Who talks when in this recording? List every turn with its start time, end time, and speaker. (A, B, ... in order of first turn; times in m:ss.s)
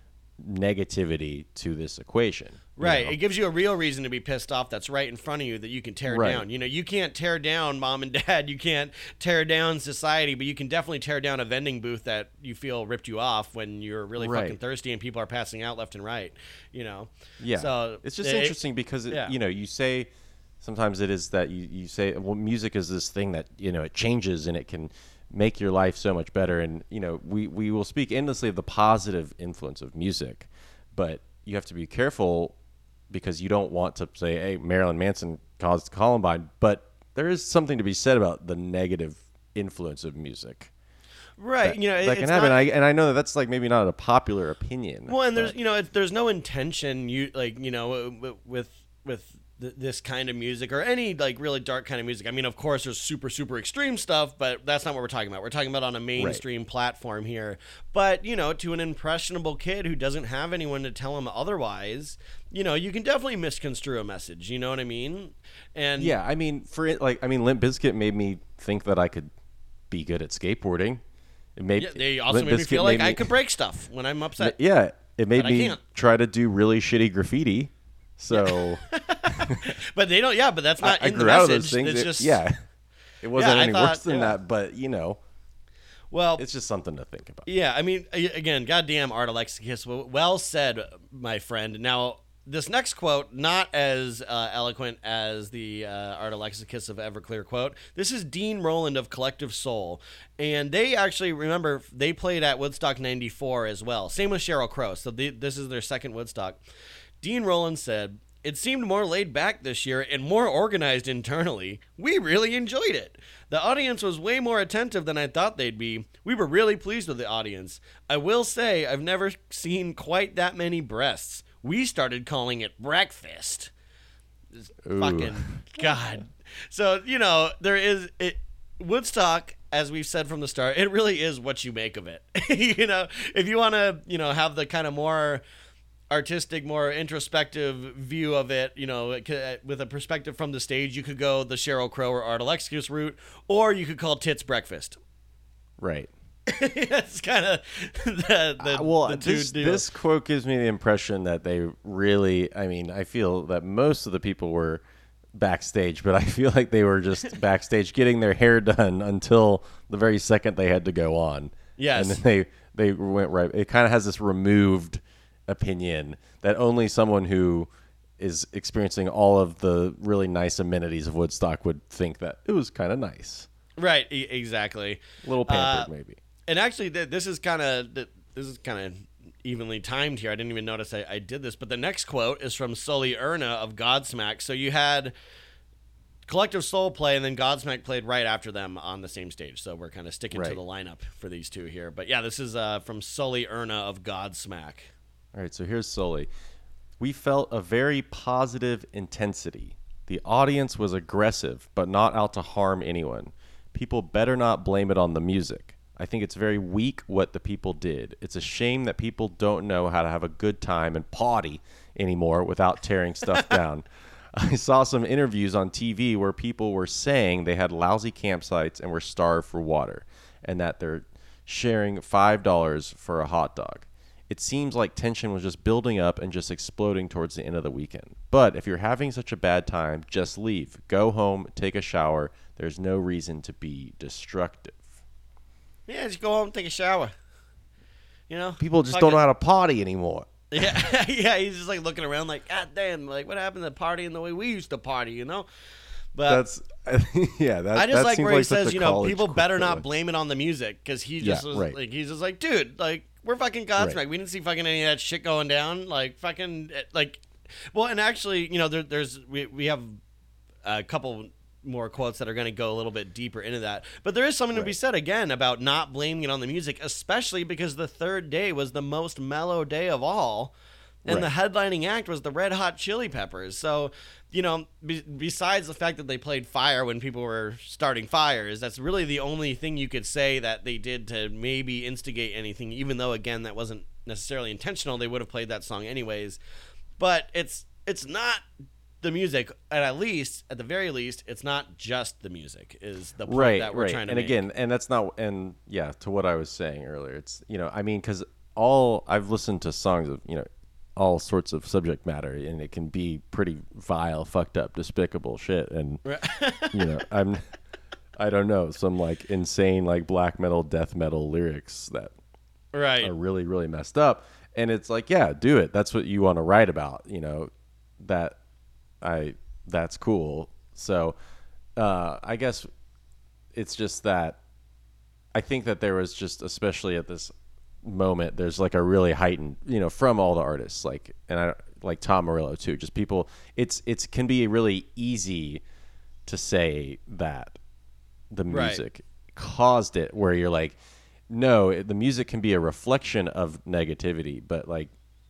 0:00.4-0:03.2 A
0:02.8-0:19.3 B
0:06.1-0:06.4 A
0:14.2-0:14.6 A
0:17.4-0:20.1 A
0:20.6-0:32.6 A
0:33.1-0:40.7 A
0:41.4-0:42.6 B
0:41.6-0:45.5 A
0:45.1-1:06.2 B
0:56.2-0:56.4 A
1:06.0-1:09.3 A
1:09.9-1:11.0 A
1:11.6-1:13.3 A
1:11.8-1:14.6 B
1:14.4-1:19.7 A
1:15.3-1:15.8 B
1:18.3-1:22.4 B
1:20.8-1:22.6 A
1:23.2-1:25.2 A
1:23.3-1:24.4 B
1:26.1-1:26.4 B
1:26.4-1:27.5 A
1:27.5-1:46.6 B
1:47.2-2:03.7 B
2:04.6-2:15.4 B
2:04.8-2:05.9 A
2:16.1-2:25.0 B
2:25.8-2:26.1 A
2:26.5-2:29.8 B
2:28.6-2:34.8 A
2:35.3-2:53.5 A
2:41.8-2:42.2 B
2:53.8-2:55.9 B
2:55.2-2:56.2 A
2:56.5-3:05.1 B
3:06.3-3:14.9 B
3:10.3-3:10.6 A
3:15.3-3:16.3 A
3:17.0-3:54.9 A
3:55.9-3:57.1 B
3:58.3-3:59.2 B
3:58.6-4:00.9 A
4:00.5-4:05.5 B
4:06.1-4:06.4 B
4:06.3-4:09.8 A
4:07.7-4:20.0 B
4:11.2-4:11.8 A
4:20.6-4:30.5 B
4:31.0-4:46.4 B
4:47.0-4:48.4 B
4:49.0-4:54.4 B
4:53.2-5:06.0 A
5:06.0-5:07.0 B
5:06.7-5:07.4 A
5:08.2-5:12.1 A
5:12.7-5:13.1 B
5:13.0-5:18.4 A
5:19.0-5:21.2 A
5:21.8-5:22.7 A
5:23.5-5:24.4 A
5:25.3-5:35.6 A
5:36.2-5:37.6 A
5:38.3-5:40.8 A
5:38.5-5:38.8 B
5:41.3-5:44.9 A